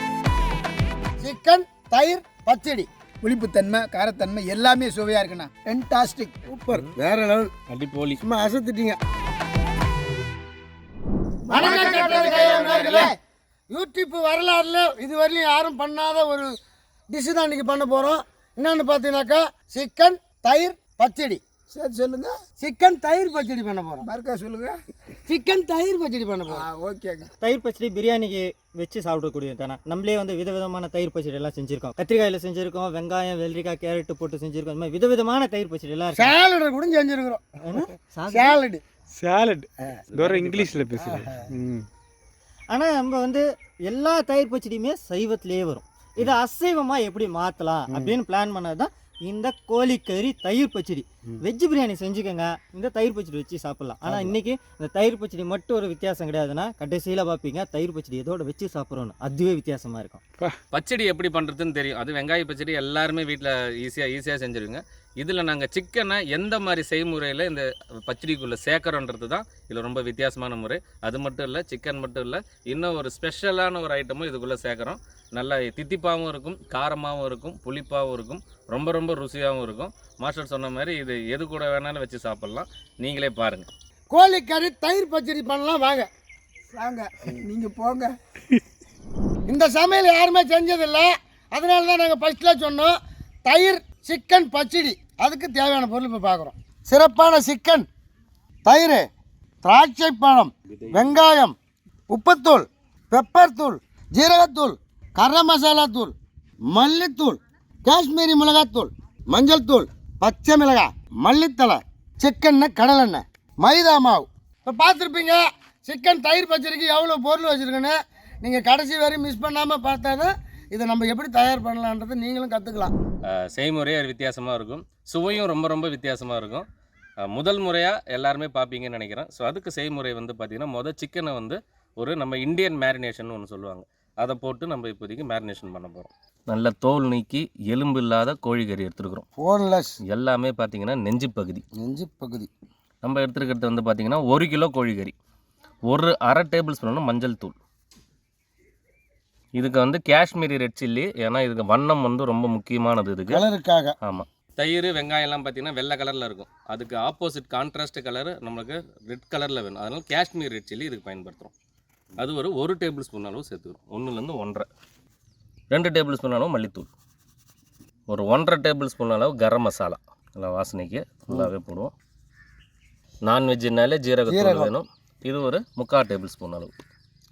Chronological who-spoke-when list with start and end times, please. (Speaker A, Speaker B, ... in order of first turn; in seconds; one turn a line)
Speaker A: 1.2-2.9
Speaker B: 3.2-6.4
Speaker A: 6.5-7.5
Speaker C: 7.7-8.2
Speaker A: 8.2-9.0
Speaker B: 11.5-13.2
Speaker A: 11.5-13.1
Speaker C: 11.8-13.1
Speaker A: 13.7-16.5
Speaker A: 17.1-21.4
Speaker B: 21.7-22.3
Speaker A: 22.6-24.1
Speaker B: 24.0-24.7
Speaker A: 25.3-26.6
Speaker B: 26.5-27.3
Speaker D: 27.4-36.3
Speaker A: 36.1-37.5
Speaker D: 37.6-38.6
Speaker A: 38.3-38.8
Speaker E: 39.1-41.9
Speaker A: 39.8-41.4
Speaker D: 42.7-60.2
Speaker C: 60.7-83.7
Speaker A: 84.1-86.1
Speaker B: 86.7-88.1
Speaker A: 89.5-97.9
Speaker A: 98.7-99.1
Speaker A: 99.6-101.5
Speaker C: 100.7-101.2
Speaker A: 102.1-106.2
Speaker A: 106.7-122.9
Speaker C: 123.3-126.7
Speaker C: 127.2-139.3
Speaker A: 139.4-140.0
Speaker C: 140.1-141.6
Speaker A: 141.8-142.5
Speaker C: 143.0-145.2
Speaker C: 145.9-147.6
Speaker C: 149.6-153.5
Speaker A: 153.3-153.9
Speaker C: 154.0-161.5
Speaker C: 162.2-164.7
Speaker C: 165.7-166.9
Speaker C: 168.1-171.9
Speaker C: 173.2-176.7
Speaker A: 174.3-174.7